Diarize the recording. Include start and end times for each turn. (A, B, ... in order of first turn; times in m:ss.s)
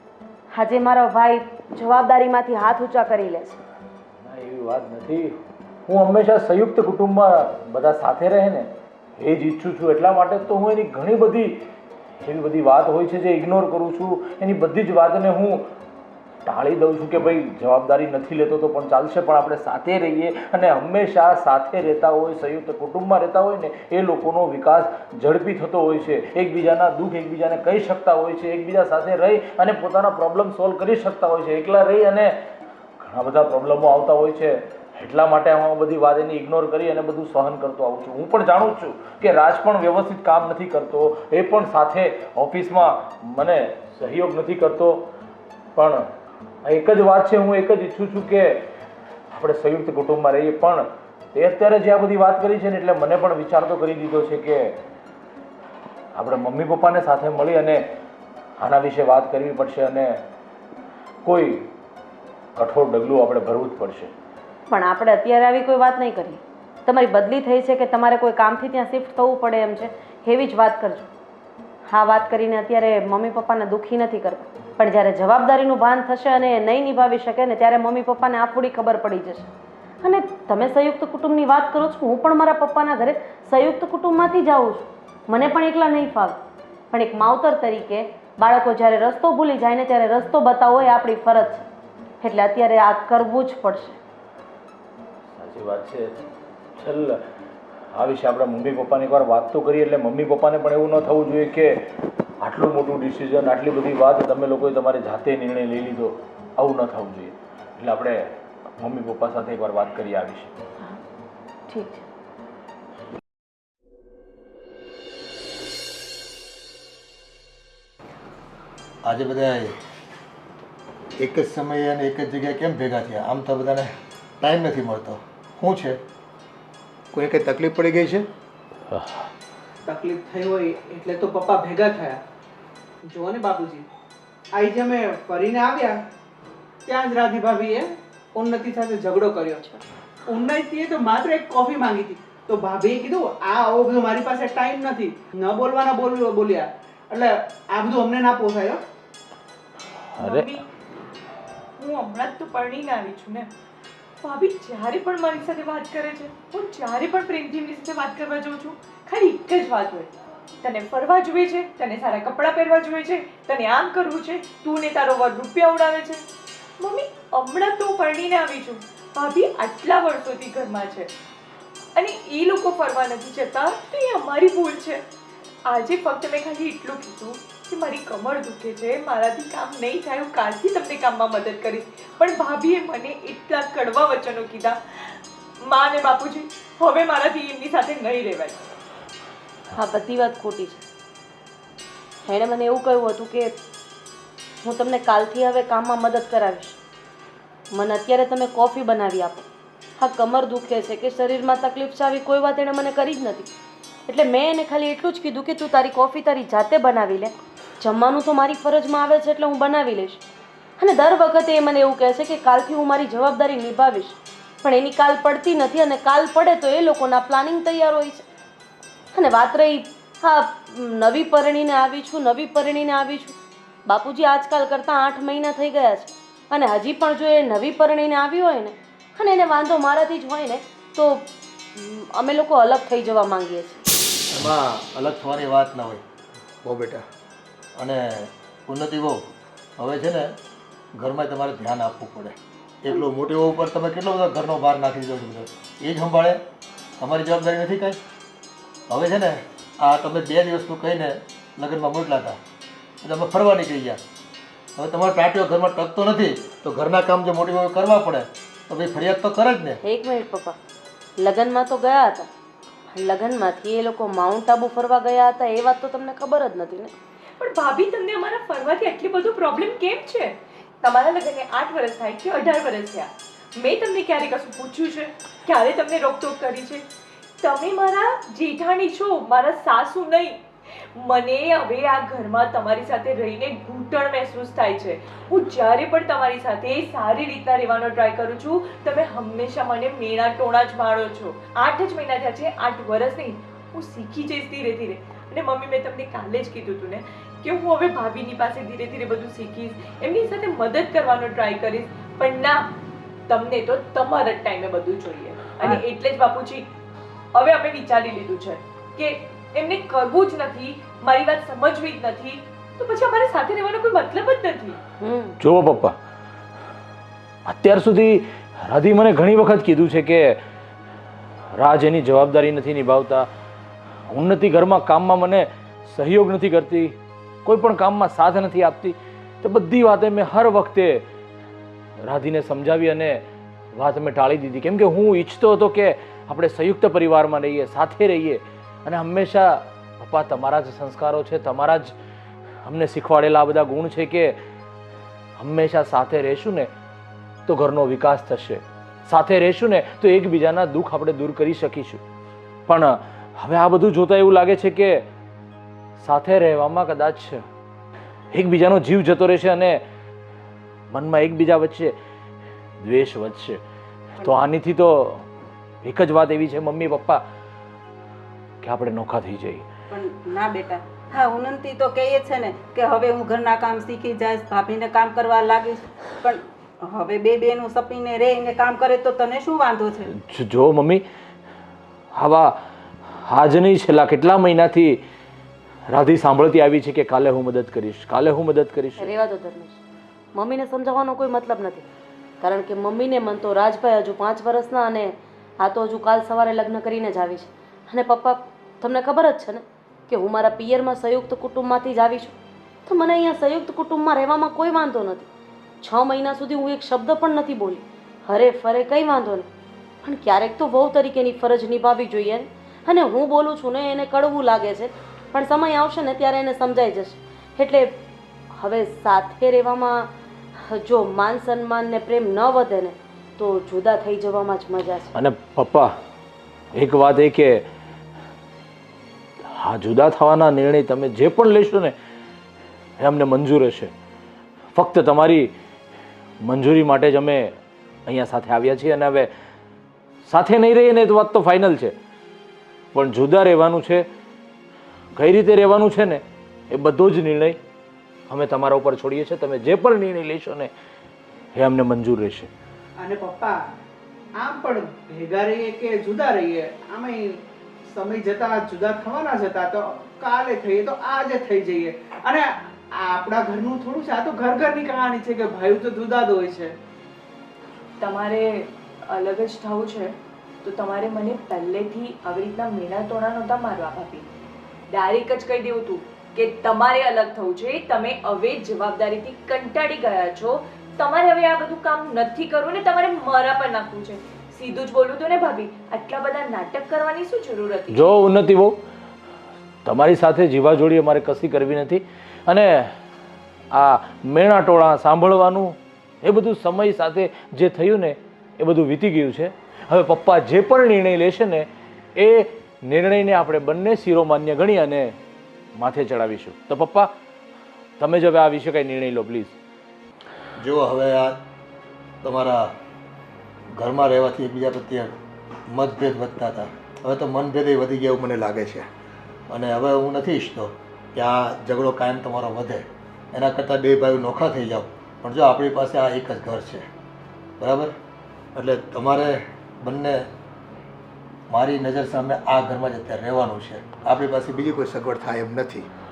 0:00.5-0:03.6 A
0:04.2-0:05.4 B
0:05.9-0:11.6 B
0:12.2-0:15.6 B
0:16.4-0:32.3 B
0:33.0-0:45.1 B
0:45.8-0:46.0 B
0:46.6-0:48.7 B
0:49.3-0:54.8 B
0:56.2-0:57.8 B
0:58.6-1:00.2 B
1:01.2-1:01.7 B
1:02.6-1:04.1 B
1:04.7-1:11.1 A
1:11.9-1:19.5 A
1:20.0-1:26.4 A
1:26.9-1:31.7 A
1:32.2-1:34.0 A
1:35.3-1:37.2 B
1:37.9-1:41.9 B
1:42.4-1:50.6 B
1:51.7-1:52.1 A
1:59.0-1:59.8 C
2:01.2-2:06.0 C
2:07.1-2:08.3 C
2:09.8-2:12.2 D
2:13.1-2:13.9 D
2:14.5-2:16.0 D
2:16.9-2:19.6 D
2:20.3-2:28.8 D
2:30.1-2:30.5 B
2:30.2-2:30.6 E
2:31.8-2:33.5 E
2:34.2-2:40.1 E
2:40.6-2:46.2 E
2:46.8-2:51.1 E
2:52.0-2:55.0 E
2:55.7-3:08.6 E
3:09.7-3:10.8 A
3:12.3-3:13.5 A
3:14.6-3:16.8 A
3:17.7-3:19.5 A
3:20.0-3:23.5 A
3:24.1-3:30.2 A
3:30.8-3:38.2 A
3:39.1-3:43.4 A
3:43.9-3:53.8 A
3:54.3-3:56.0 C
3:56.6-3:57.0 C
3:57.8-3:59.2 C
3:59.8-4:00.3 C
4:01.0-4:06.4 C
4:07.0-4:08.0 C
4:08.9-4:12.4 C
4:13.0-4:14.0 C
4:14.8-4:19.8 C
4:19.8-4:20.6 A
4:21.2-4:22.3 A
4:22.9-4:26.9 A
4:27.4-4:36.8 E
4:37.4-5:02.7 E
5:03.3-5:06.7 E
5:07.3-5:14.8 E
5:15.0-5:15.4 A
5:15.4-5:16.0 B
5:17.5-5:20.4 B
5:21.6-5:23.3 B
5:24.1-5:31.0 B
5:32.0-5:33.2 B
5:33.7-5:41.9 B
5:42.6-5:44.4 B
5:45.4-5:46.7 B
5:47.5-5:52.0 B
5:52.7-5:55.0 B
5:56.0-5:57.4 B
5:58.3-5:59.8 B
6:00.9-6:02.0 B
6:02.8-6:03.6 B
6:04.2-6:05.3 B
6:05.8-6:07.2 B
6:08.6-6:09.7 B
6:09.9-6:19.9 F
6:20.1-6:21.0 B
6:22.1-6:22.5 B
6:23.1-6:25.0 B
6:25.9-6:29.1 B
6:29.0-6:29.8 A
6:30.4-6:31.8 A
6:32.4-6:45.3 A
6:45.8-6:49.5 A
6:50.0-6:58.0 A
6:58.5-7:00.1 A
7:00.7-7:05.1 A
7:05.2-7:05.9 B
7:06.7-7:07.7 B
7:09.4-7:12.0 B
7:13.0-7:13.9 B
7:14.7-7:15.5 B
7:16.4-7:19.3 B
7:20.3-7:22.0 B
7:22.9-7:24.1 B
7:25.2-7:27.6 B
7:28.3-7:30.7 B
7:31.6-7:32.5 B
7:33.0-7:33.6 D
7:34.4-7:37.4 D
7:37.9-7:46.8 D
7:48.0-7:54.3 E
7:54.9-8:08.2 E
8:07.9-8:08.8 B
8:09.8-8:13.0 B
8:13.7-8:25.2 B
8:25.8-8:27.1 B
8:28.0-8:29.6 B
8:30.6-8:31.4 C
8:32.2-8:32.7 C
8:33.8-8:35.1 C
8:35.7-8:38.9 C
8:39.5-8:46.9 C
8:47.6-8:47.9 C
8:48.6-8:50.3 C
8:51.5-8:55.9 C